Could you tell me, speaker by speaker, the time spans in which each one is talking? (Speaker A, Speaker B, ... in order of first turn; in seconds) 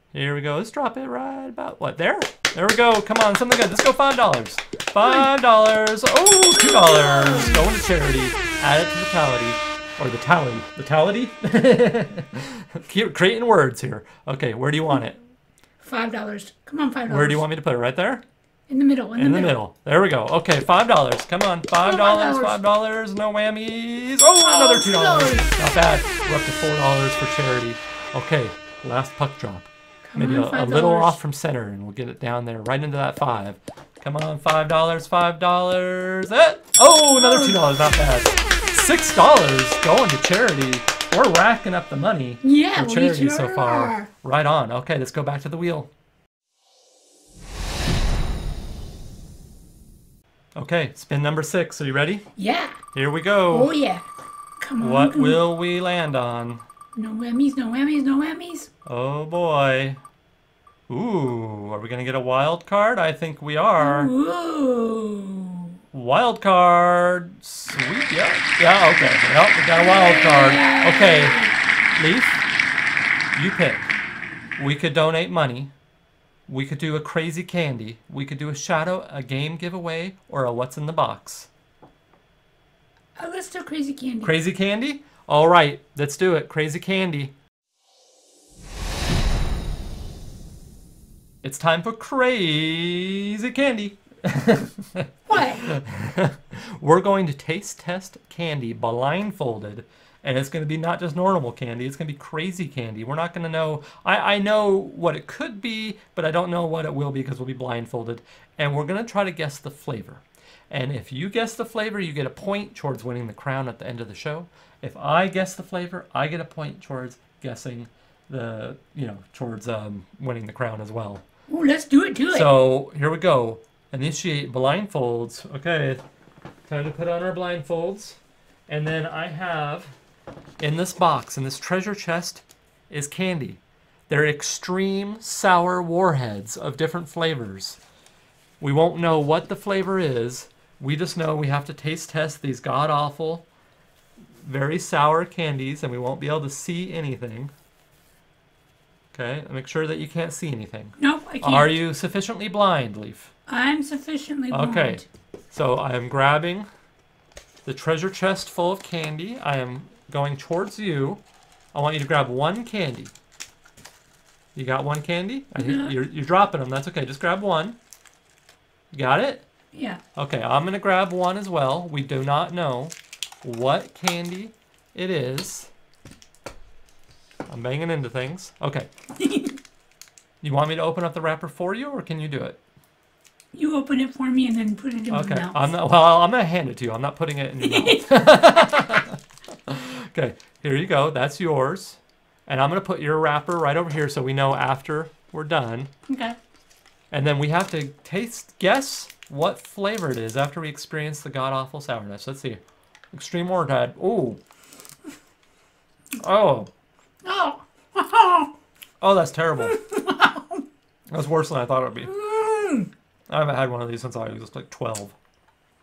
Speaker A: 0.1-15.2, 17.1-18.2, 19.1-45.9, 50.5-52.3, 52.9-53.7, 54.8-56.6, 58.9-60.0, 60.9-64.1, 65.9-71.4, 72.0-72.4, 73.3-73.9, 74.6-75.7, 76.5-81.5, 84.2-87.3, 91.4-121.2, 122.3-126.0, 126.7-129.9, 130.6-137.8, 138.6-143.4, 144.4-147.5, 149.1-153.3, 154.5-156.7, 157.6-161.2, 161.7-163.1, 164.5-167.8, 168.9-169.4, 170.2-175.7, 177.5-178.9, 180.4-182.6, 185.1-195.9, 197.1-202.6, 203.1-204.4, 206.2-206.7, 209.0-209.8, 211.1-212.1, 213.3-215.1
Speaker B: 6.6-7.7, 15.8-17.4, 18.7-19.6, 21.8-22.6, 24.4-25.5, 30.1-31.2, 37.1-37.7, 42.4-44.1, 52.4-52.8, 53.5-54.1, 54.6-55.4, 56.9-58.7, 63.8-65.7, 69.8-71.5, 83.2-84.3, 95.3-95.7, 121.5-122.6, 151.0-151.8, 153.5-155.0, 165.6-166.0, 169.7-170.0, 179.2-179.6, 183.5-185.7, 187.6-188.5, 196.1-196.4, 207.2-208.5, 209.6-210.6, 212.0-212.9